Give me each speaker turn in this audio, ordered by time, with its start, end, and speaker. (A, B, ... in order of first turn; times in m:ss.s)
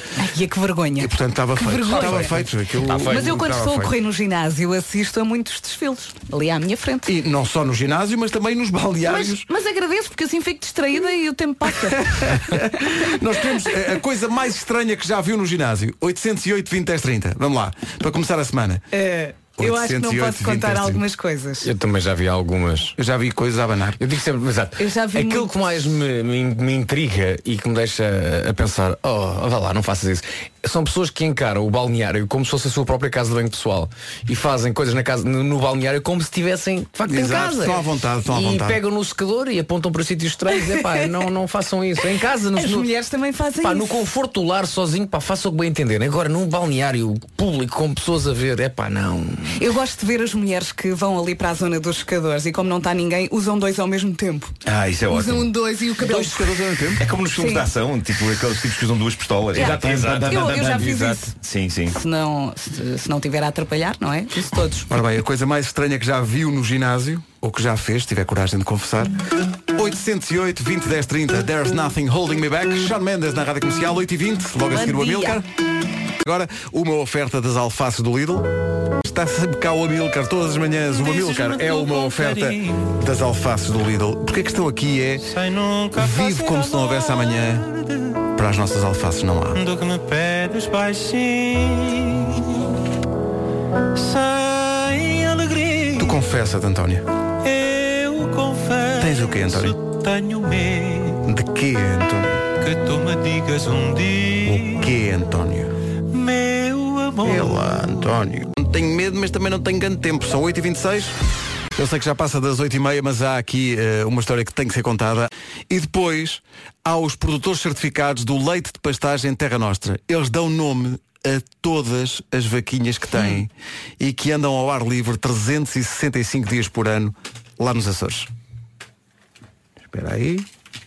0:00.2-0:02.4 A
0:01.0-0:03.9 B
0:01.9-0:02.3 C
0:02.9-0:03.4 C
0:03.0-0:07.1 A
0:07.1-0:09.5 B
0:09.1-0:13.1 A
0:11.9-0:18.9 B
0:18.9-0:21.7 A
0:19.6-0:21.0 B
0:21.6-0:23.0 C
0:23.0-0:24.0 B
0:24.0-0:42.9 C
0:24.8-0:25.5 A
0:37.1-0:38.8 B
0:42.6-0:44.0 A
0:43.6-0:49.6 C
0:49.6-0:54.5 A
0:54.6-0:55.5 D
0:55.1-0:56.6 A
0:56.0-0:57.1 B
0:57.0-1:02.0 D
0:57.3-0:57.7 A
0:59.6-1:01.3 A
0:59.6-1:00.4 C
0:59.6-1:00.4 B
1:01.9-1:04.9 A
1:04.9-1:09.1 B
1:09.7-1:15.5 B
1:14.7-1:15.4 A
1:16.2-1:18.5 B
1:19.0-1:25.3 B
1:20.9-1:23.0 E
1:25.2-1:28.1 E
1:26.0-1:27.7 B
1:28.4-1:29.6 B
1:29.5-1:32.6 E
1:33.9-1:36.2 E
1:36.0-1:37.0 B
1:37.4-1:41.2 E
1:39.0-1:39.8 B
1:41.2-1:42.5 B
1:42.6-1:44.9 E
1:44.4-1:45.7 B
1:46.1-1:47.7 E
1:47.2-1:51.1 B
1:51.8-2:08.3 B
2:09.9-2:10.5 B